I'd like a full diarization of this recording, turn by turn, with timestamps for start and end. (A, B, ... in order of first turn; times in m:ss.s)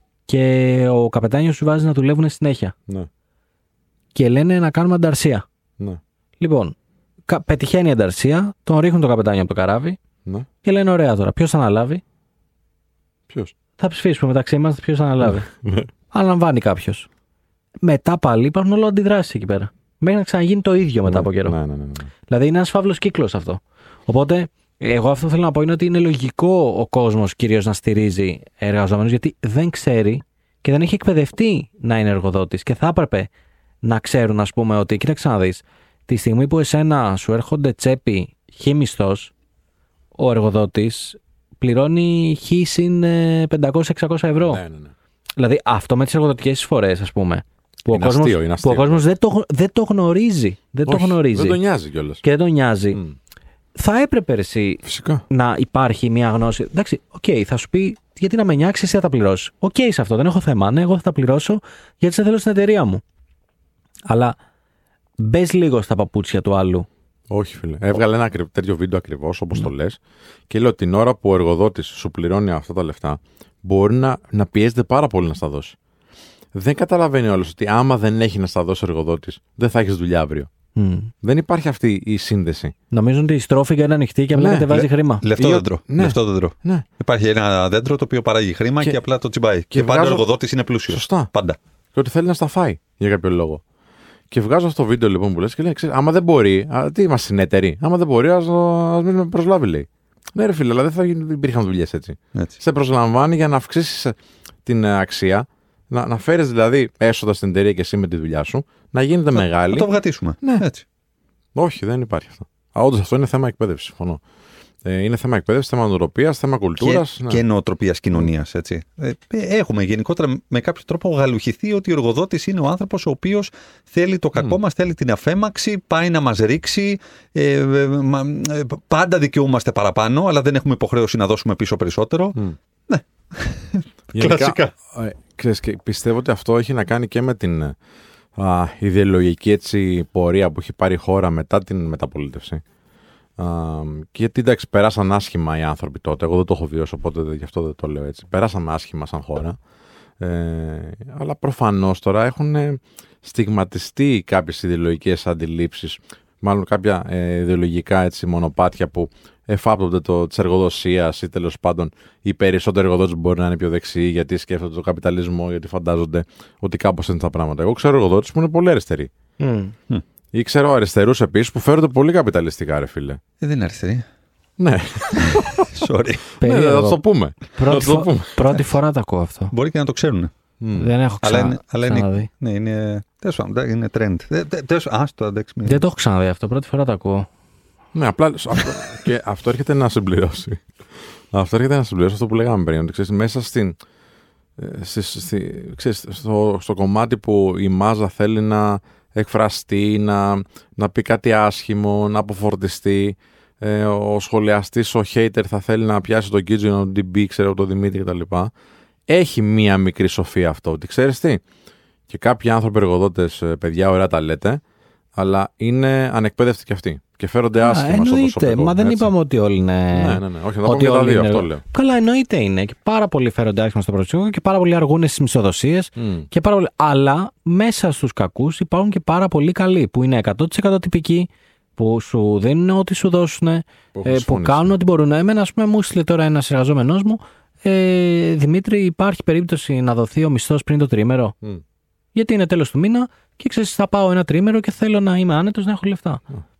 0:00.3-0:02.7 A
0:04.2-0:05.4 A
0:06.4-0:06.8 A
0:07.3-0:10.0 A
0:10.6-0:12.0 A
0:13.8-0:15.5 A
0:15.2-0:15.9 B
0:16.1-0:17.1 A
0:17.8-0:21.6 A
0:21.1-0:22.1 B
0:22.3-0:33.3 A
0:33.8-0:39.3 A
0:40.2-0:44.6 A
0:44.4-0:44.9 B
0:45.4-0:51.6 A
0:47.9-0:49.0 B
0:50.8-0:52.2 B
0:52.2-0:53.0 A
0:53.8-1:03.0 A
0:54.8-0:55.2 B
1:04.1-1:04.4 A
1:05.2-1:06.9 A
1:07.3-1:15.8 B
1:16.5-1:20.5 B
1:20.8-1:21.1 A
1:21.2-1:22.7 B
1:22.9-1:25.2 A
1:24.3-1:26.8 B
1:25.2-1:31.6 C
1:29.7-1:30.3 B
1:30.9-1:31.3 B
1:31.9-1:33.6 B
1:34.3-1:50.7 B
1:49.3-1:50.8 C
1:51.6-1:54.2 B
1:54.8-1:57.4 B
1:56.8-2:12.4 C
2:12.9-2:14.7 C
2:14.1-2:17.8 B
2:18.4-2:22.6 B
2:23.4-2:29.6 B
2:30.2-2:49.1 B
2:49.4-2:49.8 A
2:50.3-2:53.2 B
2:53.4-2:54.0 C
2:54.6-2:55.7 B
2:55.2-2:56.2 C
2:56.4-2:58.4 B
2:56.4-2:57.0 A
2:57.5-2:59.5 A
2:59.5-3:00.3 C
3:00.6-3:00.9 B
3:00.8-3:02.3 A
3:01.2-3:05.8 C
3:05.6-3:07.3 A
3:07.9-3:13.8 B
3:14.6-3:28.5 B
3:29.1-3:31.4 B
3:32.1-3:34.6 B
3:35.2-3:39.1 B
3:37.6-4:01.4 A
3:39.9-3:41.6 B
3:46.0-3:46.3 B
3:54.0-3:54.7 B
4:02.2-4:06.2 A